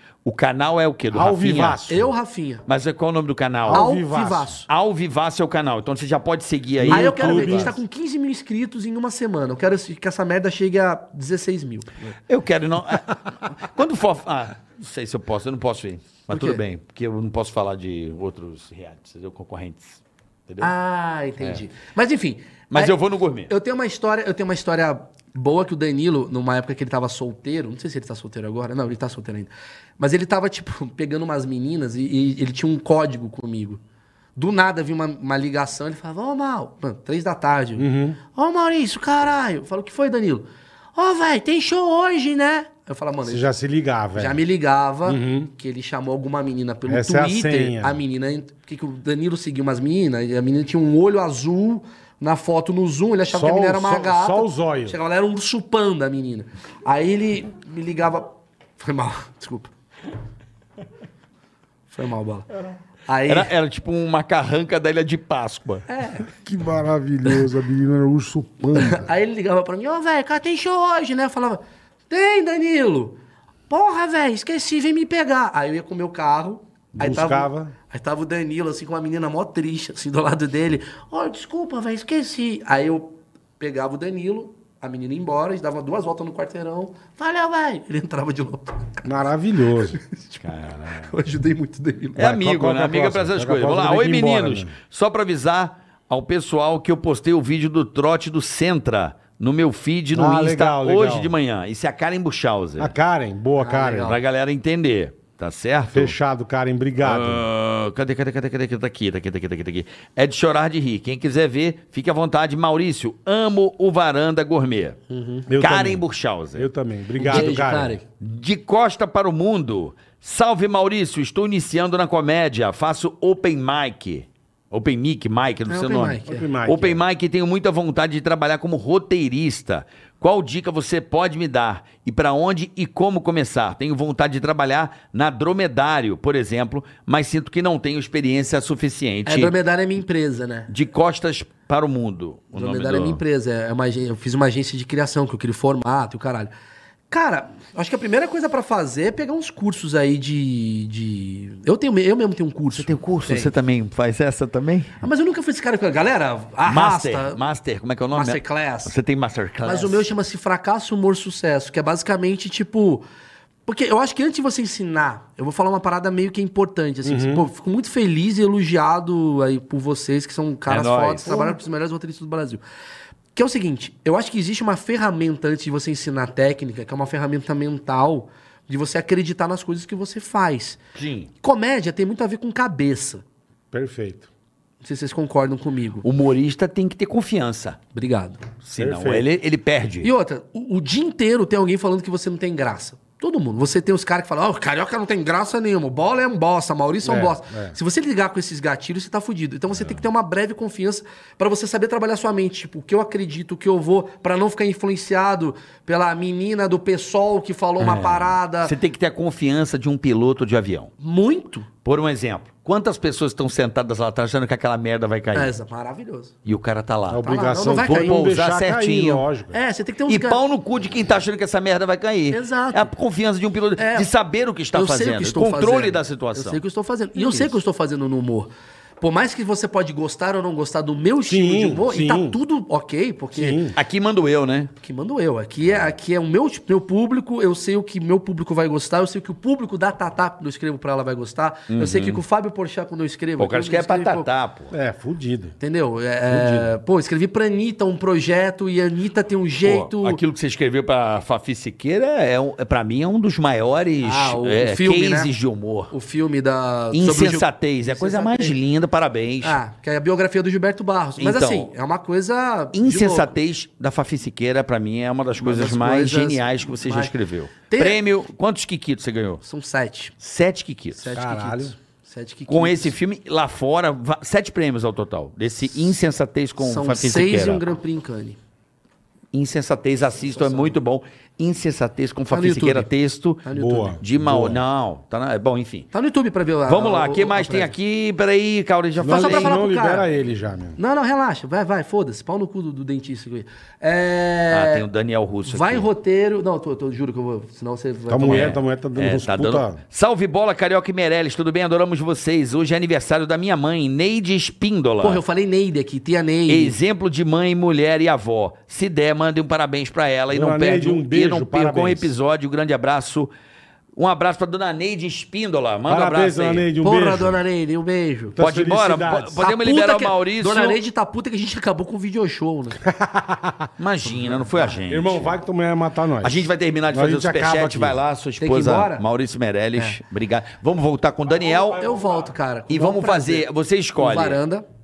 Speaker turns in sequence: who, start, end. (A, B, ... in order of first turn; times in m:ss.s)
0:00.2-0:01.8 A
0:01.1-0:02.1 B
0:01.9-0:02.6 C
0:02.6-0:03.9 A
0:03.6-0:04.6 B
0:03.7-0:04.6 C
0:04.7-0:07.8 A
0:06.8-0:07.8 B
0:06.9-0:12.1 C
0:12.3-0:20.7 A
0:16.3-0:16.6 C
0:20.6-0:33.8 C
0:22.7-0:23.5 A
0:34.4-0:43.5 C
0:37.8-0:38.2 B
0:43.2-0:44.4 B
0:44.2-0:59.7 C
0:45.0-0:45.5 B
0:46.8-0:48.0 B
0:53.3-0:55.0 B
1:01.9-1:02.5 C
1:03.0-1:03.5 C
1:03.2-1:05.8 A
1:05.9-1:06.2 C
1:06.2-1:09.1 B
1:08.7-1:13.2 C
1:13.7-1:29.2 C
1:17.0-1:17.8 B
1:29.0-1:30.0 B
1:29.8-1:30.3 C
1:30.4-1:31.1 A
1:31.0-1:32.2 C
1:32.2-1:34.7 B
1:32.2-1:42.9 A
1:40.1-1:41.4 B
1:42.8-1:44.2 B
1:43.6-1:44.2 C
1:44.0-1:46.1 A
1:45.9-1:47.5 B
1:47.0-1:55.0 A
1:55.1-1:55.4 C
1:55.5-1:58.0 B
1:55.6-1:56.7 A
1:57.2-1:58.0 C
1:57.3-1:57.6 A
1:58.2-2:19.5 A
2:05.7-2:06.5 C
2:06.2-2:07.0 B
2:19.2-2:20.7 C
2:20.7-2:23.2 A
2:22.5-2:26.5 C
2:27.1-2:33.5 C
2:32.7-2:35.0 A
2:35.0-2:37.4 C
2:36.6-2:40.1 A
2:38.1-2:38.9 C
2:39.6-2:43.0 C
2:43.6-2:52.6 C
2:47.0-2:47.5 B
2:50.7-2:51.6 A
2:53.3-3:00.8 C
3:00.9-3:01.3 A
3:01.4-3:03.2 C
3:03.7-3:04.3 B
3:04.8-3:06.0 C
3:06.0-3:07.8 A
3:07.9-3:08.4 C
3:08.6-3:10.1 A
3:08.8-3:09.3 B
3:10.0-3:28.7 C
3:17.0-3:17.8 B
3:27.8-3:30.9 A
3:31.0-3:31.7 C
3:31.8-3:35.5 A
3:35.3-3:36.3 C
3:36.4-3:39.2 A
3:37.1-3:39.6 B
3:37.2-3:38.3 C
3:39.5-3:40.4 C
3:40.1-3:46.6 A
3:42.3-3:42.9 C
3:43.8-3:44.1 C
3:44.7-3:53.7 C
3:47.2-3:47.5 A
3:51.2-3:52.4 B
3:53.3-3:53.8 B
3:53.7-3:54.7 A
3:54.8-4:04.3 C
3:55.6-3:55.9 A
4:01.7-4:02.2 A
4:03.4-4:04.7 A
4:04.7-4:05.6 B
4:05.6-4:10.2 C
4:06.3-4:06.7 B
4:09.6-4:15.9 A
4:14.0-4:15.3 C
4:15.9-4:18.6 C
4:16.9-4:19.6 A
4:19.4-4:23.3 C
4:21.2-4:21.7 A
4:22.7-4:29.4 A
4:25.4-4:27.1 C
4:27.7-4:28.0 C
4:29.4-4:30.1 C
4:30.2-4:31.0 A
4:31.0-4:32.9 C
4:31.1-4:31.8 B
4:32.5-4:37.6 A
4:36.6-4:38.4 C
4:39.3-4:43.4 A
4:40.3-4:40.7 C
4:42.3-4:42.9 C
4:43.4-4:44.0 C
4:43.5-4:44.6 B
4:44.0-4:45.9 A
4:45.9-4:47.7 C
4:46.7-4:49.6 A
4:49.0-4:50.8 B
4:49.0-4:50.0 C
4:50.8-4:54.9 C
4:54.5-4:55.9 A
4:55.4-4:58.5 C
4:58.1-4:59.8 B
4:58.2-5:05.2 A
5:05.0-5:06.8 C
5:06.5-5:13.3 A
5:10.3-5:12.1 B
5:13.9-5:16.7 A
5:15.9-5:17.4 B
5:16.8-5:18.4 C
5:18.3-5:19.4 B
5:18.4-5:20.8 A
5:19.4-5:22.8 C
5:22.8-5:23.7 B
5:23.8-5:25.4 A
5:24.2-5:24.8 C
5:24.8-5:28.0 B
5:26.2-5:31.8 A
5:28.4-5:29.0 C
5:31.3-5:32.3 B
5:31.6-5:33.5 C
5:32.7-5:34.4 A
5:34.0-5:34.6 C